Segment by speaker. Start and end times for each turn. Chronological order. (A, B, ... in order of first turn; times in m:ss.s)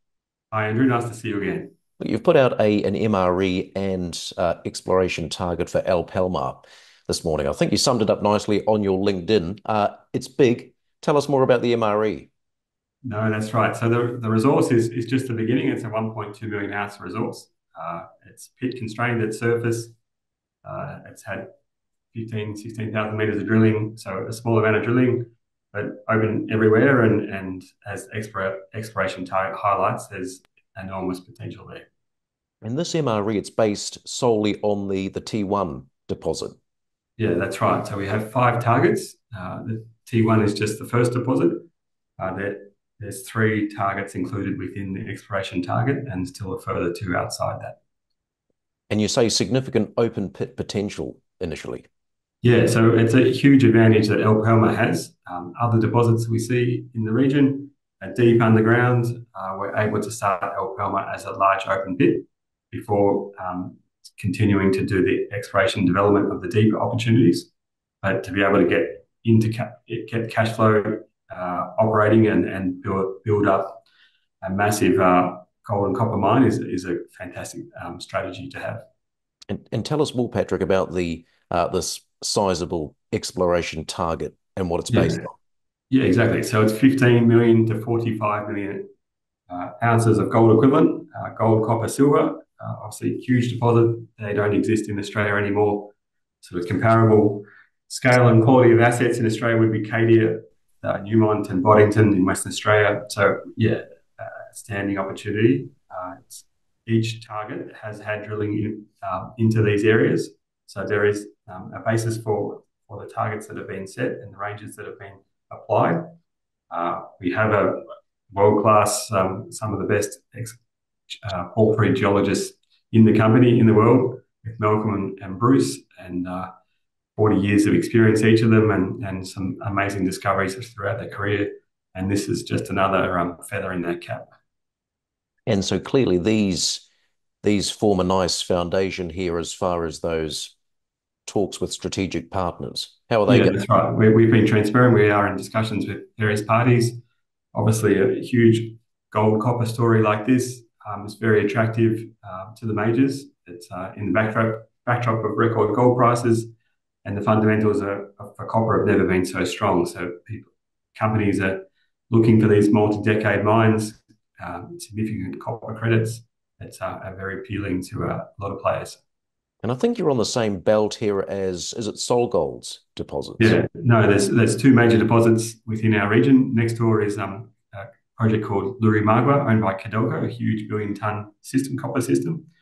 0:00.5-0:01.7 A
0:02.0-0:12.3 B
0:13.0-0:20.0 A
0:20.6-0:21.5 A
0:22.1-0:31.9 A
0:32.6-0:36.6 B
0:37.2-0:41.7 A
0:42.2-0:47.8 A
0:48.9-0:51.9 B
0:52.4-1:07.5 A
1:08.0-1:13.8 A
1:14.4-1:18.8 A
1:19.5-1:25.3 B
1:24.9-1:25.2 A
1:25.9-1:28.9 A
1:29.5-1:56.1 A
1:56.7-2:00.6 A
2:01.1-2:06.5 A
2:07.2-2:14.3 A
2:15.5-2:16.9 B
2:17.4-2:20.6 B
2:21.3-2:23.6 B
2:23.3-2:27.0 A
2:27.5-2:49.0 A
2:49.6-2:53.6 B
2:53.4-3:02.5 A